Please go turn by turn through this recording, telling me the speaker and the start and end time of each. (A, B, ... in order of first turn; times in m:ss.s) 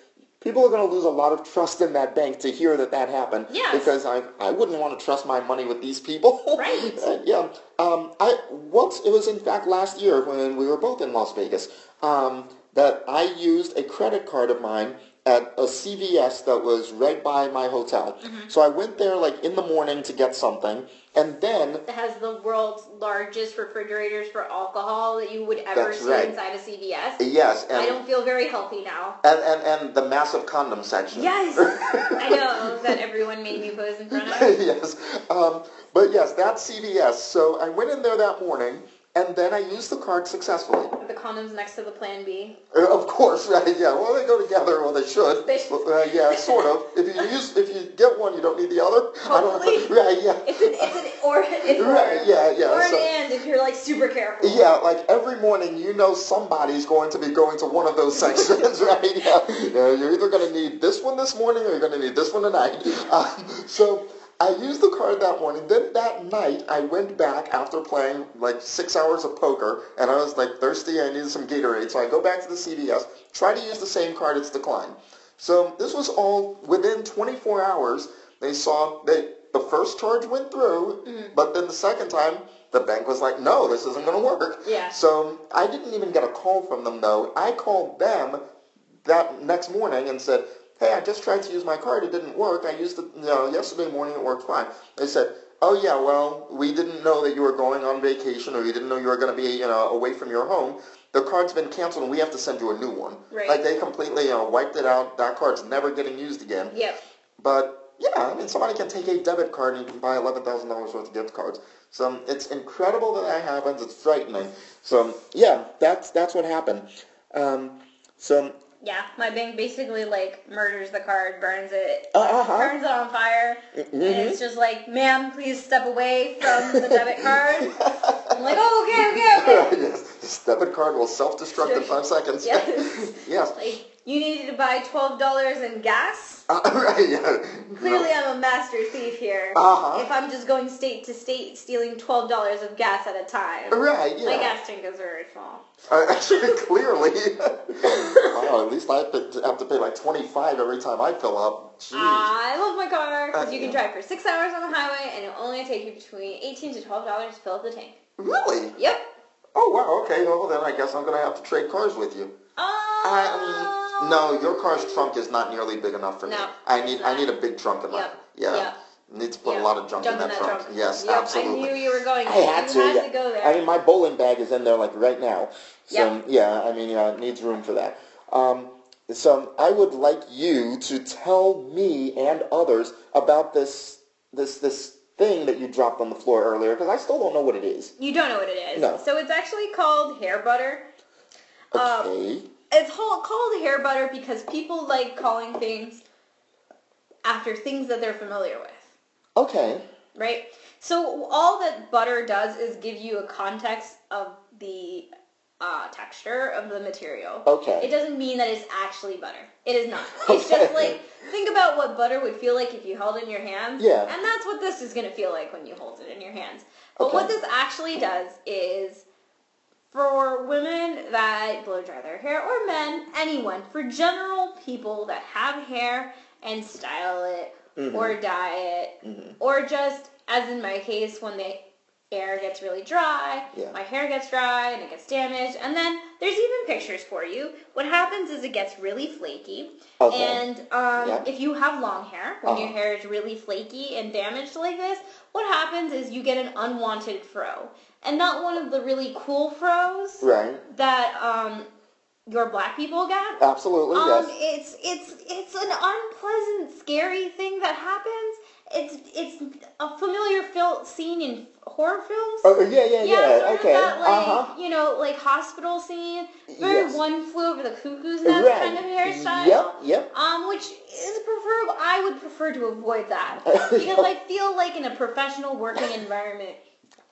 0:00.4-0:21.8 A
0:03.5-0:03.9 B
0:06.6-0:07.0 B
0:18.2-0:18.5 B
0:21.9-0:27.2 B
0:25.7-0:26.4 A
0:27.2-0:28.0 A
0:27.7-0:29.2 B
0:29.2-0:33.0 A
0:31.1-0:34.6 B
0:34.1-0:40.9 A
0:41.0-0:42.6 B
0:42.7-0:50.9 A
0:45.4-0:46.7 B
0:49.3-0:49.9 B
0:50.4-0:54.6 B
0:51.7-0:53.1 A
0:54.4-1:28.4 A
0:58.2-0:58.6 B
1:21.0-1:21.3 B
1:24.6-1:25.0 B
1:29.0-1:46.8 A
1:43.3-1:43.6 B
1:46.7-1:47.0 B
1:47.4-1:58.6 A
1:58.8-2:07.8 B
2:02.1-2:02.8 A
2:03.8-2:04.4 A
2:06.4-2:13.7 A
2:08.3-2:09.7 B
2:11.5-2:16.5 B
2:16.5-2:18.1 A
2:17.8-2:25.6 B
2:19.5-2:20.1 A
2:23.7-2:24.6 A
2:25.9-2:32.3 A
2:27.8-2:28.5 B
2:31.9-2:38.0 B
2:33.3-2:33.8 A
2:38.2-2:38.8 A
2:38.8-2:39.0 B
2:39.6-2:42.3 A
2:42.6-2:45.1 B
2:43.0-3:07.9 A
2:46.2-2:47.3 B
2:47.9-2:48.7 B
2:49.4-2:53.7 B
3:08.0-3:10.8 B
3:08.8-3:09.0 A
3:11.7-3:12.5 A
3:11.7-3:12.1 B
3:12.7-3:16.0 B
3:17.2-3:18.9 B
3:19.4-3:19.8 A
3:20.2-3:25.1 B
3:25.6-3:39.0 B
3:27.4-3:27.9 A
3:30.1-3:31.0 A
3:33.8-3:34.1 A
3:37.0-3:37.3 A
3:39.9-4:11.7 B
3:47.8-3:48.2 A
3:49.0-3:49.4 A
4:00.0-4:00.4 A
4:01.0-4:01.3 A
4:02.4-4:02.8 A
4:10.2-4:10.6 A
4:12.3-4:13.4 B
4:13.4-4:14.3 A
4:13.9-4:36.6 B
4:22.4-4:24.5 A
4:26.5-4:27.0 A
4:28.2-4:30.1 A
4:33.5-4:34.1 A